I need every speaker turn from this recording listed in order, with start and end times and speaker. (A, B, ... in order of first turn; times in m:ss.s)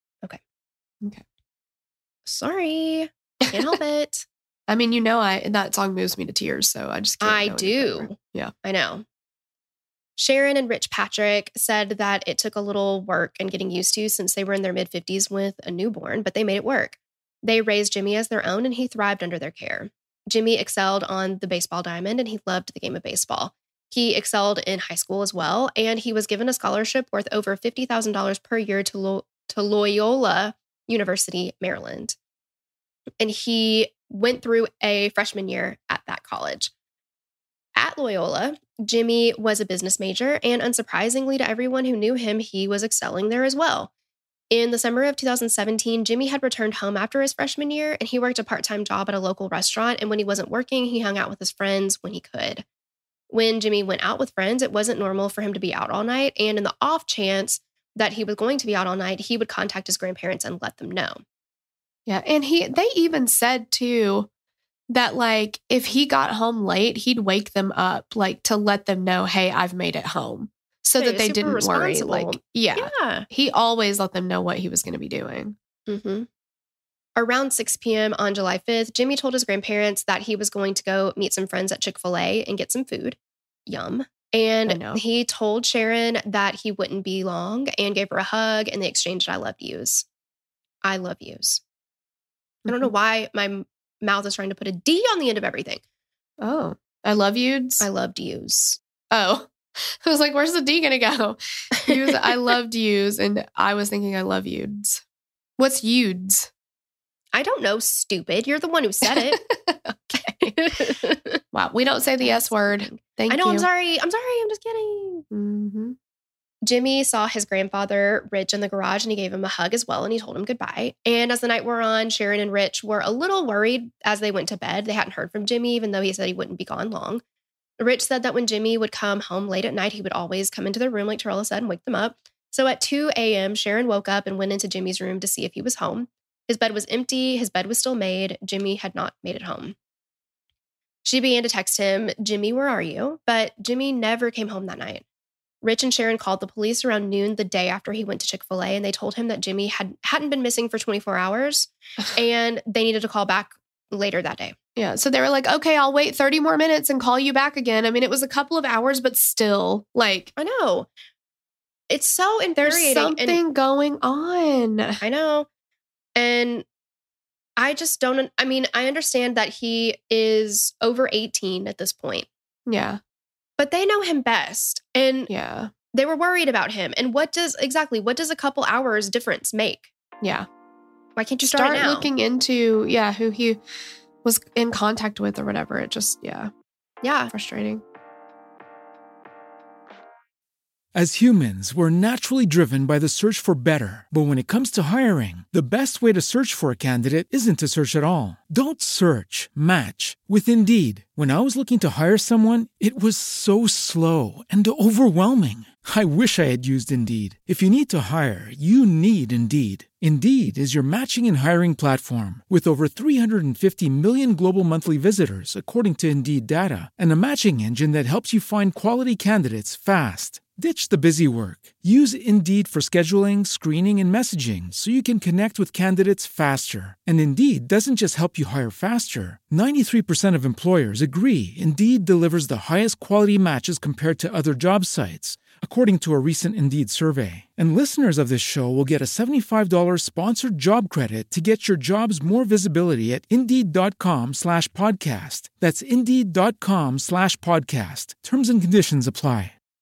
0:02.3-0:04.3 A
0:03.5-0:03.8 B
0:04.7-0:08.5 B
0:07.2-0:09.0 A
0:10.2-0:32.2 A
0:33.2-0:36.7 A
0:37.8-0:43.9 A
0:44.5-0:52.6 A
0:53.3-1:01.2 A
1:02.1-1:04.3 B
1:04.9-1:15.6 B
1:11.0-1:13.3 A
1:15.9-1:16.3 A
1:17.2-1:30.0 A
1:24.7-1:25.0 B
1:30.8-1:31.6 A
1:32.7-1:32.9 B
1:32.7-1:35.8 A
1:36.4-1:37.9 B
1:37.8-1:38.8 A
1:39.1-1:45.0 B
1:41.8-1:42.3 A
1:45.6-1:46.5 B
1:47.3-1:49.4 A
1:49.1-1:50.6 B
1:50.2-1:51.4 A
1:51.5-1:53.7 B
1:52.2-1:55.2 A
1:55.3-1:56.0 B
1:56.6-2:07.2 A
2:07.8-2:19.8 A
2:21.0-2:25.0 A
2:25.6-2:34.6 A
2:34.8-2:40.3 B
2:40.4-2:40.9 A
2:41.9-2:43.4 A
2:42.6-2:45.0 B
2:45.0-2:45.5 A
2:46.2-2:46.7 A
2:47.6-2:52.3 A
2:52.7-2:53.0 B
2:53.6-2:55.3 A
2:55.3-2:55.7 B
2:55.9-2:59.9 A
3:00.2-3:00.5 B
3:01.2-3:02.1 A
3:01.4-3:03.6 B
3:04.2-3:06.5 B
3:07.0-3:07.3 A
3:07.3-3:07.8 B
3:10.9-4:09.5 C